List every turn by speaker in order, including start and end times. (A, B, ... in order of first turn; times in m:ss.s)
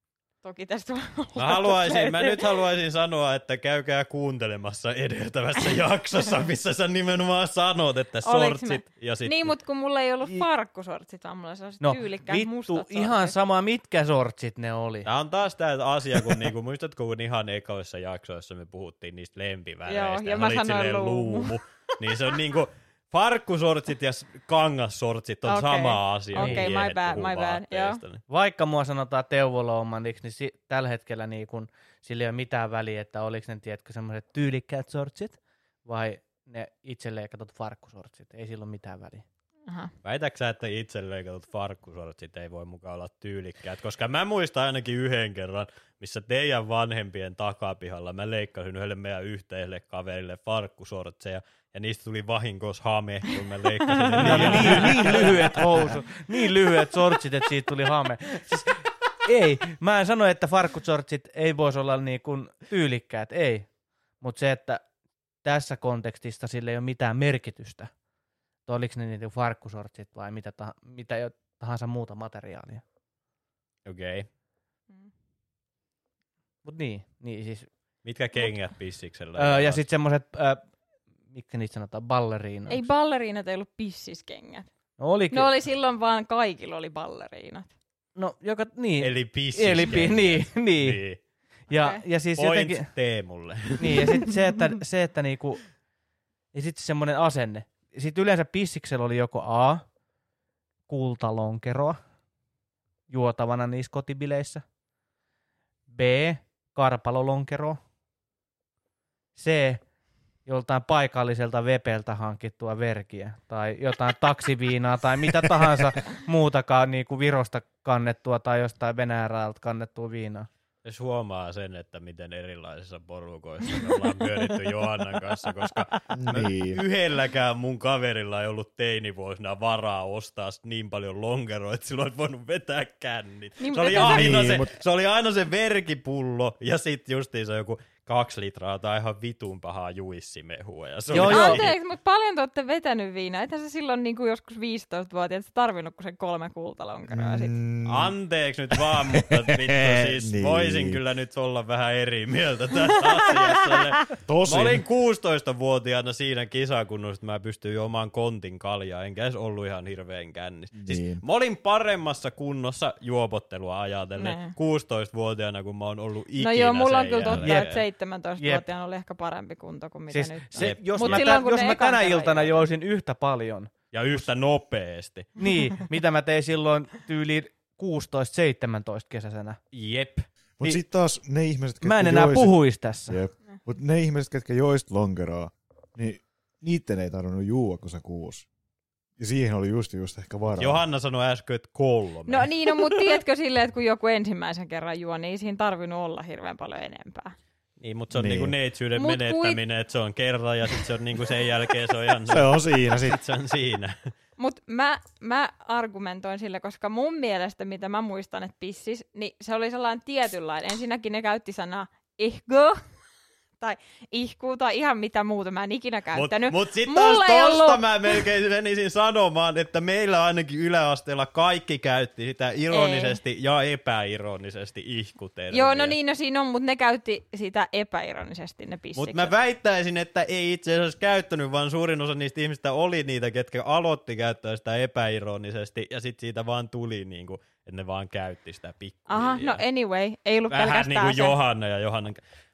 0:00.4-0:02.6 A
0:01.4-0:09.5 B
0:08.2-0:13.3 A
0:11.8-0:15.1 C
0:15.0-0:28.2 B
0:19.9-0:21.6 A
0:25.4-0:28.0 A
0:26.3-0:26.7 C
0:28.3-0:39.2 C
0:39.7-0:39.9 A
0:40.0-0:56.0 B
0:54.0-0:55.2 A
0:54.2-1:04.8 C
1:05.4-1:07.9 C
1:08.6-1:12.8 C
1:13.8-1:14.3 B
1:16.6-1:17.7 C
1:18.0-1:19.8 B
1:19.4-1:20.6 C
1:21.3-1:22.8 C
1:22.7-1:24.7 A
1:25.0-1:25.5 C
1:25.3-1:27.7 A
1:28.2-1:31.0 C
1:29.0-1:31.2 B
1:31.7-1:32.9 C
1:31.7-1:32.0 A
1:32.3-1:34.2 B
1:33.8-1:35.7 C
1:36.5-1:39.8 C
1:40.9-1:42.0 C
1:43.1-1:44.6 C
1:45.9-1:47.8 C
1:49.4-1:49.8 C
1:50.4-2:00.5 C
2:00.8-2:21.7 B
2:03.8-2:04.5 A
2:05.5-2:05.8 A
2:06.2-2:06.8 D
2:13.6-2:14.6 A
2:14.0-2:14.7 D
2:21.1-2:21.6 C
2:21.1-2:27.6 A
2:27.1-2:28.1 D
2:27.8-2:47.8 B
2:28.8-2:31.0 D
2:34.3-2:34.8 D
2:40.7-2:41.2 D
2:44.2-2:44.5 A
2:46.4-2:52.6 A
2:47.3-2:47.8 C
2:48.4-2:48.6 C
2:50.1-2:53.7 C
2:50.5-2:51.2 B
2:53.9-2:55.4 B
2:55.4-2:59.6 C
2:59.7-3:00.3 B
3:00.6-3:08.5 D
3:01.8-3:03.2 C
3:09.2-3:10.8 D
3:10.6-3:13.2 B
3:12.3-3:17.3 A
3:17.8-3:24.1 B
3:18.1-3:18.5 D
3:19.0-3:19.6 A
3:22.3-3:23.2 D
3:24.4-3:32.8 A
3:33.6-3:38.2 A
3:36.1-3:46.0 B
3:42.7-3:43.2 A
3:45.5-3:49.3 A
3:49.0-3:59.6 B
3:59.1-4:01.4 A
4:00.5-4:02.2 B